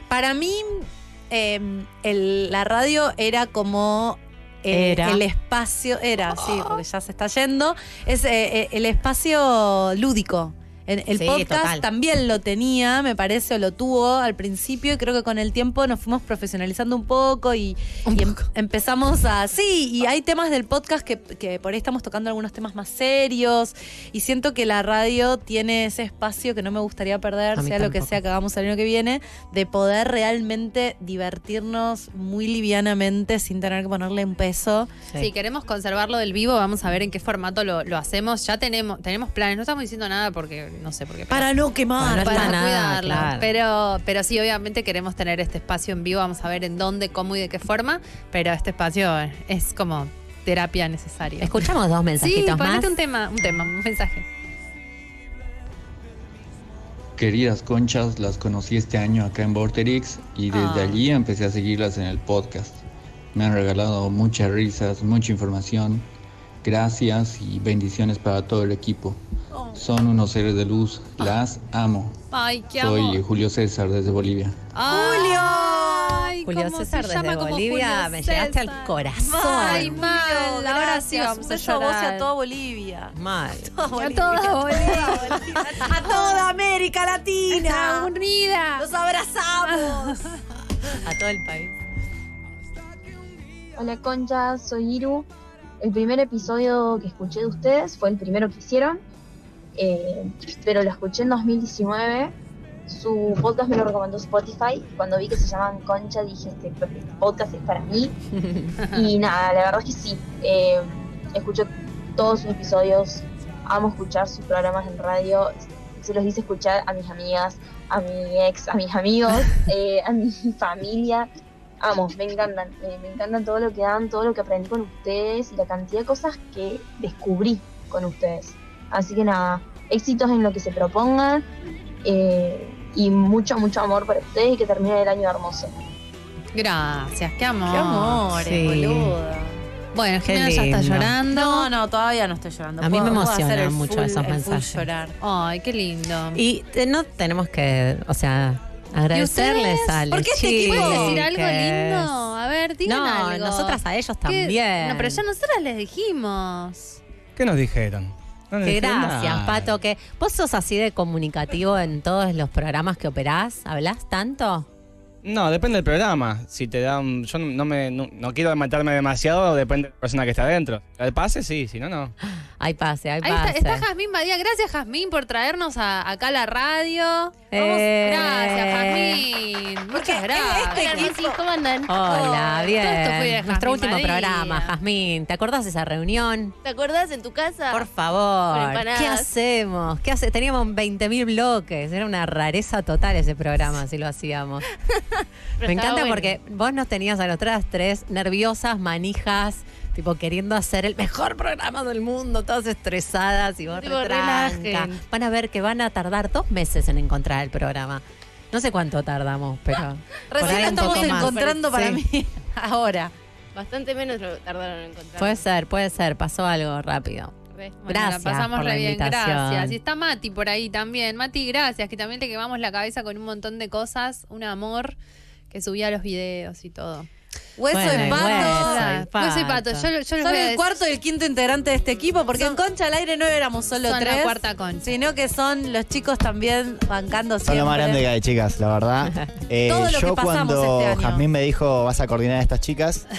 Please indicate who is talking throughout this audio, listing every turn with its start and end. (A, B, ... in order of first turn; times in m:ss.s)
0:00.1-0:34.9 A
0:04.7-0:05.2 B
0:06.3-0:06.8 B
0:11.1-0:11.8 B
0:18.1-0:18.4 C
0:27.6-0:28.2 B
0:35.2-0:51.7 C
0:41.3-0:42.6 A
0:42.0-0:43.5 B
0:51.4-0:52.9 B
0:52.2-0:54.2 C
0:57.2-1:06.0 D
1:00.5-1:01.0 C
1:06.6-1:09.2 D
1:09.7-1:12.2 D
1:12.3-1:13.2 C
1:12.7-1:14.6 D
1:14.7-1:22.3 C
1:14.9-1:16.2 A
1:16.4-1:20.0 B
1:19.3-1:28.1 A
1:23.1-1:23.7 B
1:23.9-1:26.5 C
1:27.5-1:28.9 C
1:28.8-1:30.2 A
1:29.6-1:30.2 C
1:31.0-1:31.7 B
1:33.8-1:35.3 E
1:35.8-1:39.0 E
1:39.8-1:42.3 E
1:42.9-1:48.1 E
1:48.3-1:48.7 B
1:48.8-1:49.0 C
1:48.8-2:01.3 E
2:01.8-2:11.4 E
2:12.0-2:15.7 E
2:16.5-2:18.2 C
2:17.7-2:19.6 A
2:18.4-2:19.1 B
2:19.9-2:21.7 C
2:20.2-2:21.1 B
2:21.3-2:25.1 A
2:22.8-2:24.9 B
2:25.2-2:26.4 C
2:26.3-2:32.3 B
2:29.1-2:37.0 C
2:30.1-2:31.2 A
2:32.8-2:35.2 B
2:37.4-2:39.7 F
2:38.6-2:44.7 B
2:45.2-2:52.1 F
2:52.2-2:53.8 B
2:53.2-3:01.1 C
2:57.5-2:59.2 B
2:59.9-3:01.4 A
3:00.7-3:02.4 G
3:01.9-3:06.6 B
3:02.1-3:02.3 A
3:02.5-3:04.7 C
3:06.6-3:07.9 G
3:07.7-3:14.6 B
3:08.5-3:09.3 G
3:15.6-3:16.4 G
3:15.6-3:32.0 B
3:23.7-3:25.0 G
3:30.3-3:33.1 A
3:30.4-3:31.8 G
3:33.5-3:35.4 G
3:35.2-3:37.4 B
3:37.6-3:45.0 C
3:37.9-3:39.8 B
3:45.5-3:47.1 C
3:47.6-3:48.9 A
3:47.7-3:49.9 B
3:47.9-3:50.8 C
3:50.2-3:58.0 A
3:52.3-3:52.6 C
3:53.8-3:55.0 C
3:57.4-4:03.1 H
3:59.6-4:01.2 A